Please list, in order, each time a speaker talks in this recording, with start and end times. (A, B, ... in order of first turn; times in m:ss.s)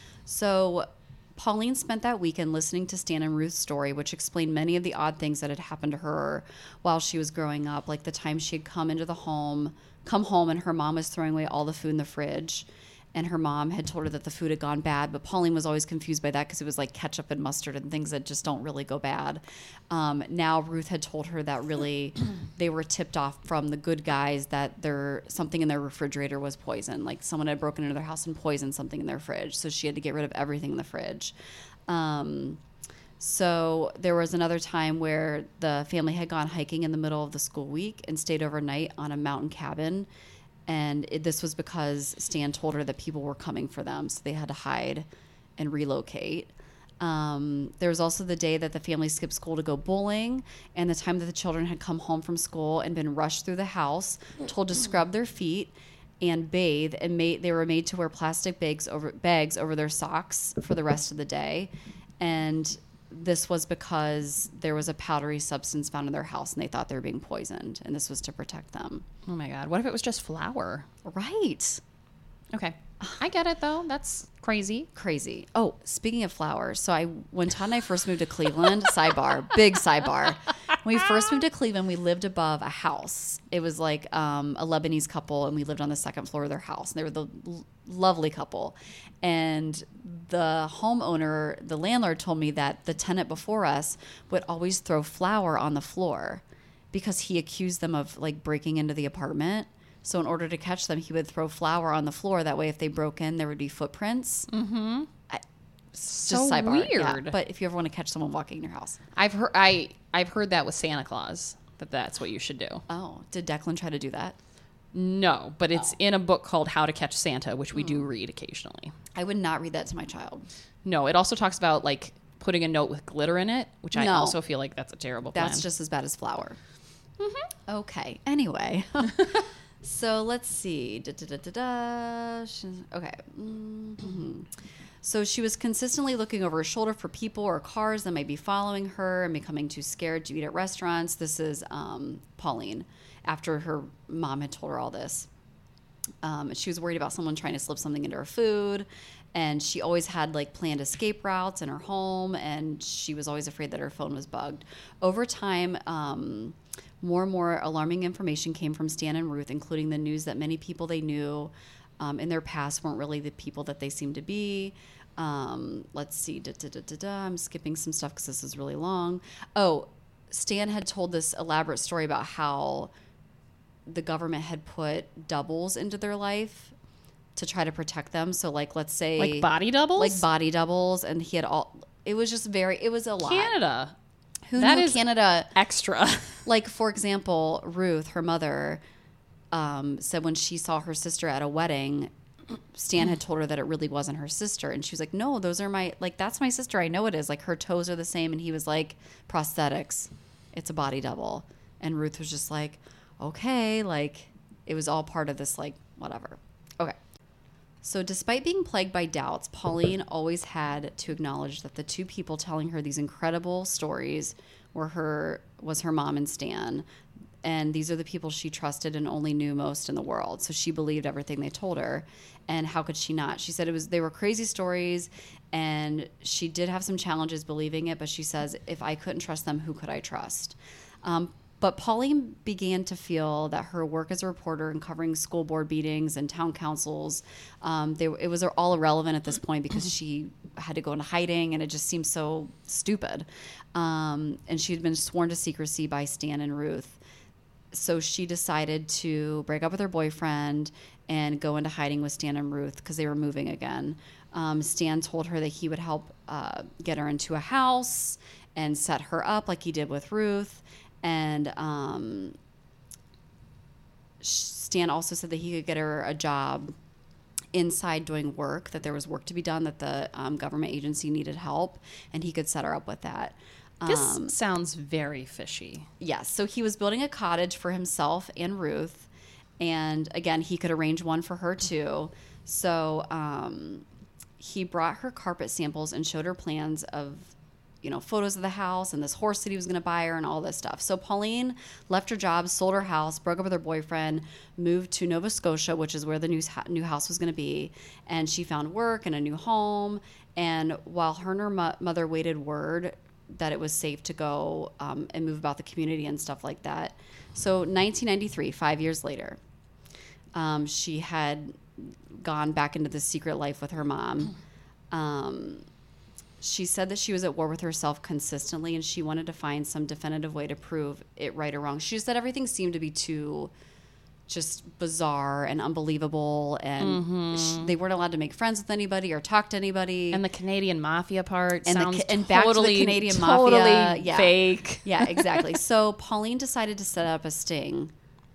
0:00.3-0:31.3 A
0:31.9-0:32.6 A
0:33.2-0:40.1 A
0:40.7-1:09.0 A
1:09.3-1:10.9 B
1:11.0-1:11.8 A
1:12.5-1:14.9 B
1:14.9-1:44.5 A
1:44.5-1:45.1 B
1:45.9-1:49.0 A
1:46.1-1:47.4 B
1:49.2-1:52.8 B
1:52.9-1:54.4 A
1:54.9-1:58.9 B
1:57.7-1:58.0 A
1:59.1-2:00.5 A
2:00.8-2:05.6 B
2:03.9-2:04.4 A
2:05.3-2:06.6 A
2:07.2-2:07.5 B
2:07.7-2:25.3 A
2:26.2-2:52.9 A
2:53.9-2:56.7 A
2:57.4-3:03.6 A
2:59.2-3:00.2 B
3:03.2-3:03.9 B
3:04.5-3:05.5 A
3:04.6-3:06.4 B
3:06.4-3:08.8 A
3:09.5-3:12.1 A
3:12.7-3:27.0 A
3:27.8-3:36.8 A
3:37.4-4:07.0 A
4:07.7-4:22.4 A
4:24.2-4:26.7 A
4:27.5-4:34.4 A
4:33.9-4:35.9 B
4:36.0-4:39.1 A
4:39.6-4:43.8 A
4:44.4-5:09.4 A
5:10.3-5:14.4 A
5:14.9-5:15.6 A
5:16.4-5:23.5 A
5:24.3-5:30.2 A
5:26.8-5:27.7 B
5:30.1-5:35.5 B
5:31.6-5:37.9 A